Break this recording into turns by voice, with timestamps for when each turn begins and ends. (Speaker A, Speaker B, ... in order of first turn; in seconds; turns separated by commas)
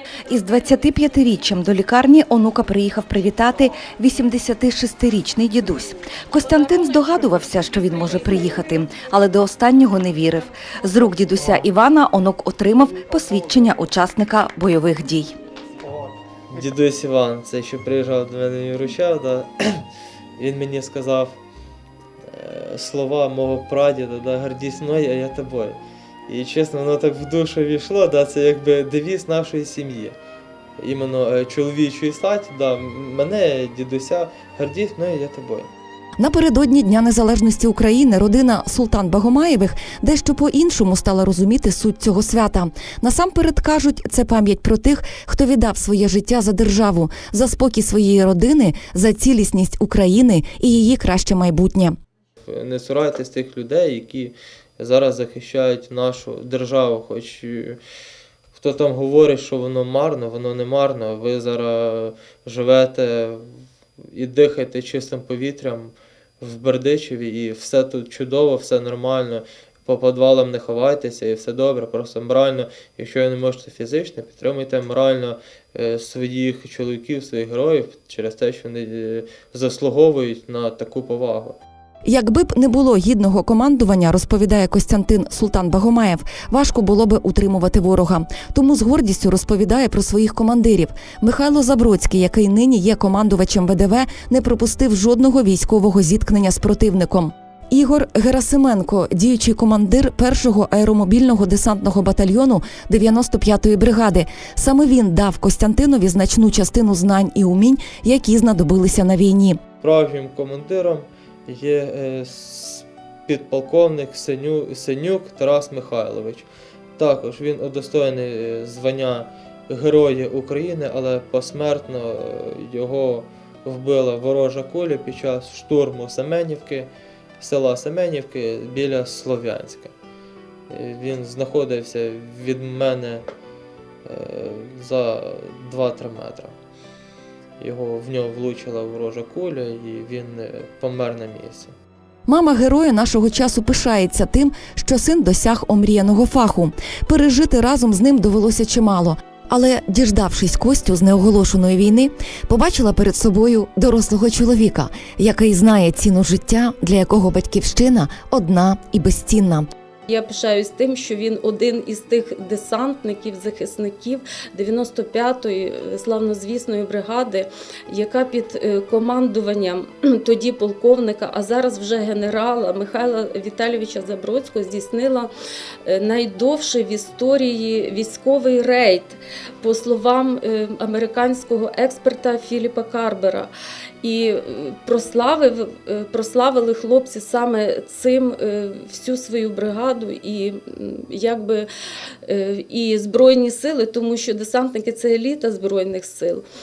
Speaker A: 0.3-15.3, Speaker B: 16.5-19.8, Speaker B: 20.4-21.4, Speaker B: 22.3-30.1, Speaker B: 30.8-35.7, Speaker A: 36.2-52.0, Speaker B: 52.5-57.8, Speaker B: 58.5-81.6, Speaker A: 82.0-109.6, Speaker B: 109.8-129.9, Speaker B: 130.7-133.2, Speaker B: 134.0-136.5, Speaker B: 137.6-141.7, Speaker A: 142.3-159.7, Speaker C: 160.1-175.3, Speaker C: 175.8-191.7, Speaker C: 192.2-196.4